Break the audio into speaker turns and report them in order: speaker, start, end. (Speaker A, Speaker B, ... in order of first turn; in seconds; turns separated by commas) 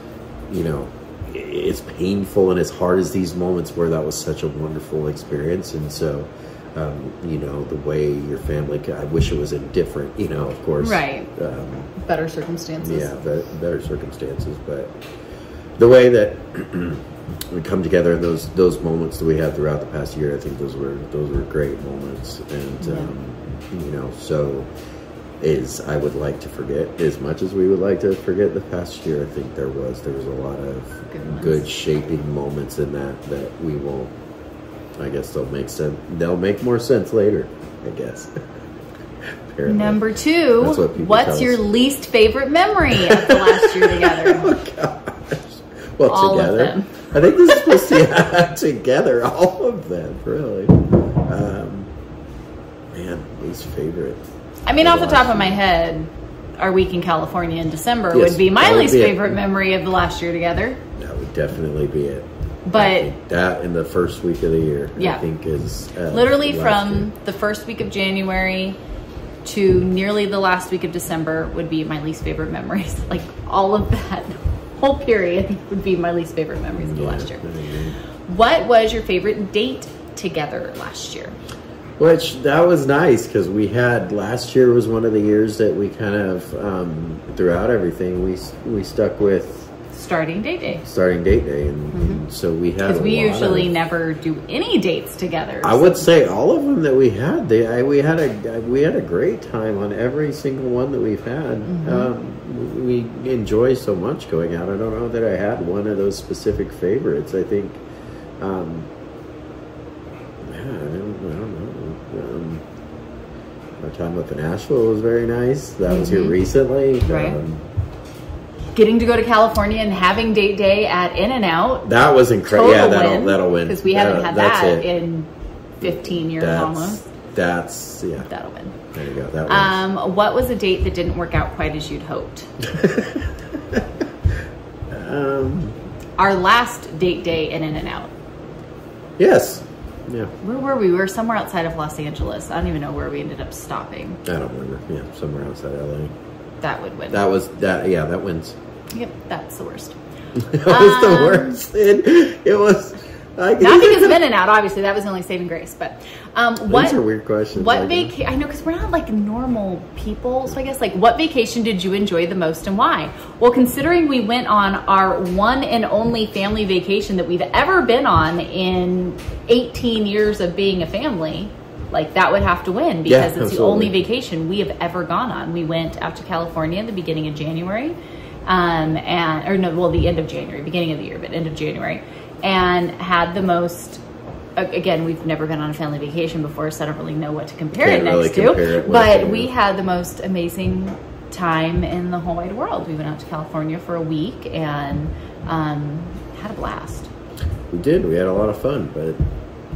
Speaker A: 0.5-11.9, Speaker B: 10.8-11.3, Speaker B: 12.0-13.1, Speaker A: 12.8-15.0, Speaker A: 15.8-24.7, Speaker B: 22.8-23.1, Speaker A: 25.4-34.1, Speaker B: 31.1-31.6, Speaker A: 35.0-38.4, Speaker A: 39.5-40.0, Speaker B: 39.7-44.6, Speaker A: 40.6-41.6, Speaker A: 42.9-51.9, Speaker B: 46.1-48.0, Speaker A: 52.9-54.2, Speaker B: 54.7-60.8, Speaker A: 54.8-55.6, Speaker A: 58.1-59.4, Speaker A: 61.0-67.1, Speaker B: 62.7-63.1, Speaker B: 65.0-65.2, Speaker B: 66.1-68.8, Speaker B: 69.4-77.4, Speaker A: 76.7-78.0, Speaker B: 78.2-81.4, Speaker A: 82.0-89.7, Speaker B: 89.9-90.8, Speaker A: 90.8-93.7, Speaker B: 91.9-92.2, Speaker B: 92.8-96.1, Speaker A: 95.6-107.8, Speaker B: 101.7-102.1, Speaker A: 108.4-108.9, Speaker A: 110.4-112.6, Speaker A: 113.8-117.6, Speaker B: 115.9-116.4, Speaker B: 117.1-117.4, Speaker B: 118.8-121.9, Speaker A: 121.8-124.9, Speaker B: 122.4-125.3, Speaker B: 125.8-127.0, Speaker A: 125.8-128.3, Speaker B: 128.2-128.8, Speaker A: 128.9-129.8, Speaker B: 129.5-132.5, Speaker A: 132.7-133.9, Speaker A: 134.9-135.8, Speaker B: 136.2-138.1, Speaker A: 139.2-140.3, Speaker B: 140.4-144.2, Speaker A: 144.2-146.1, Speaker B: 146.6-147.2, Speaker A: 147.1-148.6, Speaker B: 148.9-150.0, Speaker A: 150.4-154.2, Speaker B: 150.6-151.6, Speaker B: 153.6-157.0, Speaker A: 156.7-158.1, Speaker B: 157.5-184.0, Speaker A: 173.1-174.0, Speaker B: 184.6-197.1, Speaker A: 187.7-189.5, Speaker A: 197.7-199.2